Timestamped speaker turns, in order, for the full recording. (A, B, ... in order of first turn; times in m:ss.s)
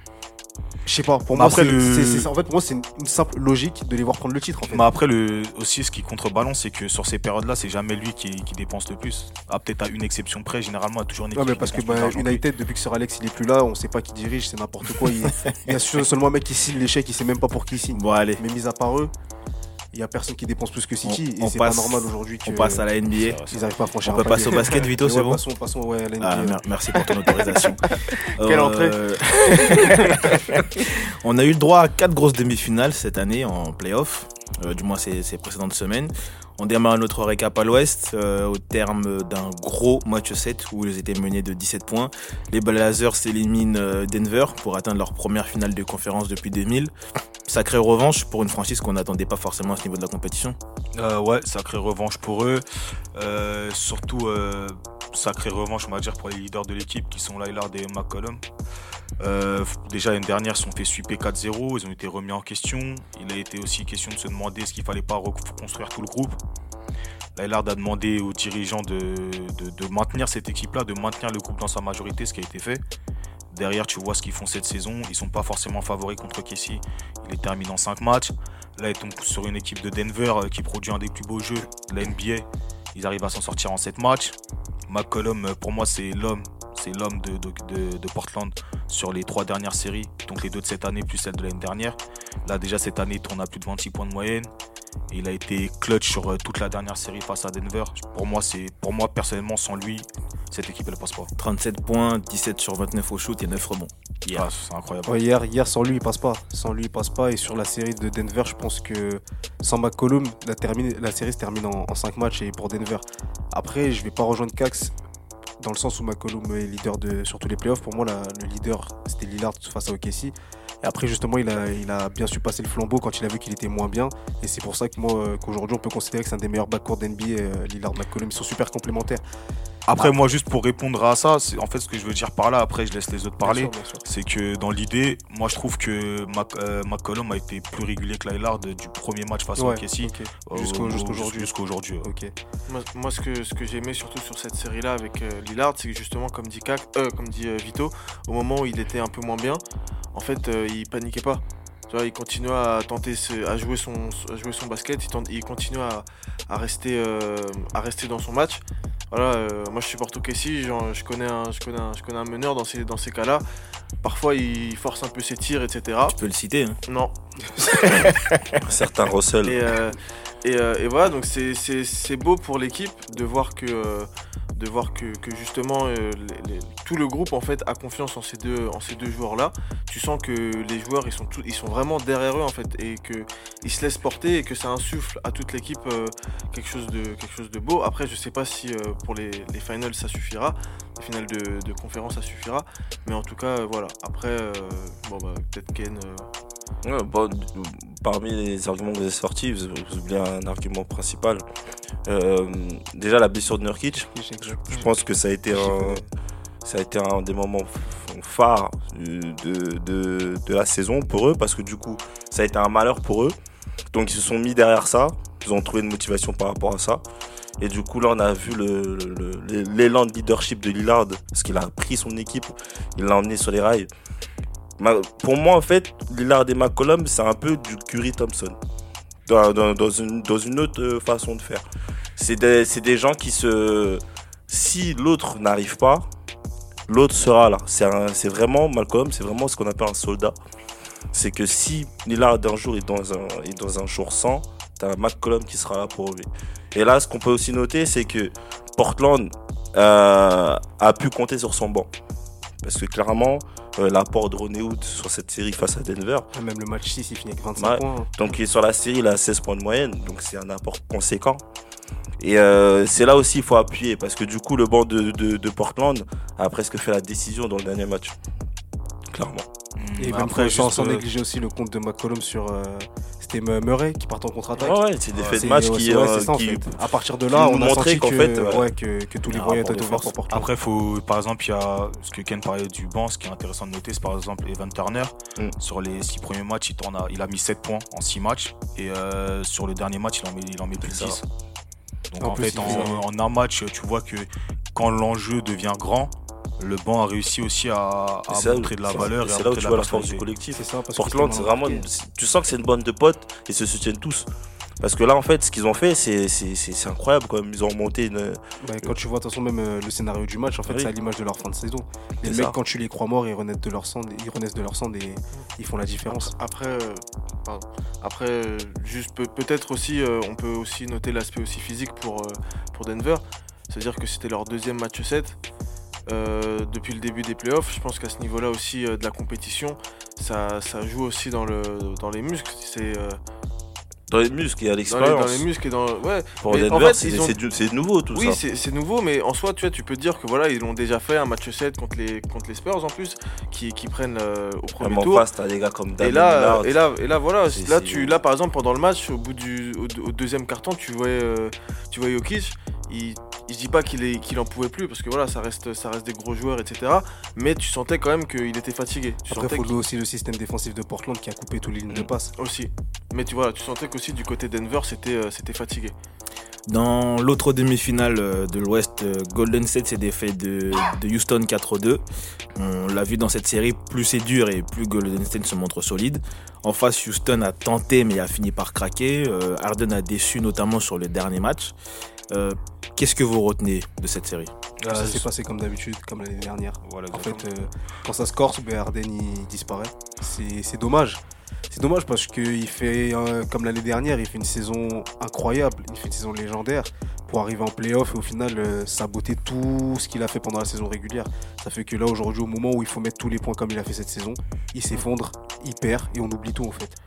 0:00.9-0:04.9 A
0:01.3-0:02.3 B
0:04.7-0:12.4 B
0:11.3-0:19.1 A
0:17.9-0:18.4 C
0:19.9-0:26.6 A
0:21.0-0:25.4 C
0:26.2-0:46.9 C
0:28.4-0:30.2 D
0:47.5-0:50.6 C
0:51.0-0:52.6 B
0:53.2-0:58.4 B
0:59.2-1:06.4 B
1:07.4-1:12.8 B
1:13.5-1:24.4 B
1:24.9-1:34.5 B
1:35.1-1:41.3 B
1:41.4-1:44.5 C
1:44.3-1:45.2 B
1:45.1-1:55.0 A
1:55.6-2:09.2 A
2:09.9-2:22.1 B
2:13.4-2:14.0 A
2:19.6-2:21.5 A
2:22.0-2:22.3 A
2:22.7-2:29.6 D
2:30.1-2:43.4 D
2:44.0-2:46.2 D
2:46.1-2:46.8 C
2:46.9-2:47.2 D
2:48.6-2:49.6 E
2:49.4-3:16.3 D
3:16.8-3:21.4 E
3:22.1-3:26.1 E
3:24.1-3:24.9 A
3:25.5-3:26.0 A
3:26.6-3:33.4 E
3:33.9-3:37.0 E
3:37.6-3:43.9 E
3:44.8-3:48.6 E
3:49.3-3:51.6 E
3:52.2-3:56.1 E
3:56.9-4:00.4 E
4:01.1-4:11.9 E
4:12.6-4:16.3 E
4:16.3-4:18.3 A
4:17.6-4:21.4 E
4:22.2-4:28.2 E
4:29.1-4:29.5 E
4:29.8-4:31.1 B
4:30.0-4:40.5 A
4:34.6-4:38.7 E
4:39.3-4:40.1 E
4:40.3-4:51.2 B
4:50.8-4:51.2 E
4:52.1-5:00.3 B
4:52.2-4:53.0 A
4:52.6-4:52.9 E
4:58.3-5:04.3 E
5:00.5-5:01.9 A
5:04.8-5:09.0 E
5:08.6-5:16.3 A
5:10.7-5:10.9 E
5:12.2-5:12.6 E
5:16.1-5:25.4 D
5:26.1-5:33.2 D
5:34.1-5:35.4 E
5:34.9-5:37.3 D
5:36.4-5:38.4 E
5:38.1-5:45.2 D
5:44.8-5:46.8 E
5:46.0-5:59.8 D
5:47.5-5:48.2 E
5:59.3-6:02.3 A
6:02.4-6:06.0 D
6:06.7-6:12.0 C
6:12.6-6:21.8 C
6:22.3-6:24.5 C
6:24.8-6:25.3 B
6:24.9-6:47.0 A
6:26.8-6:27.5 B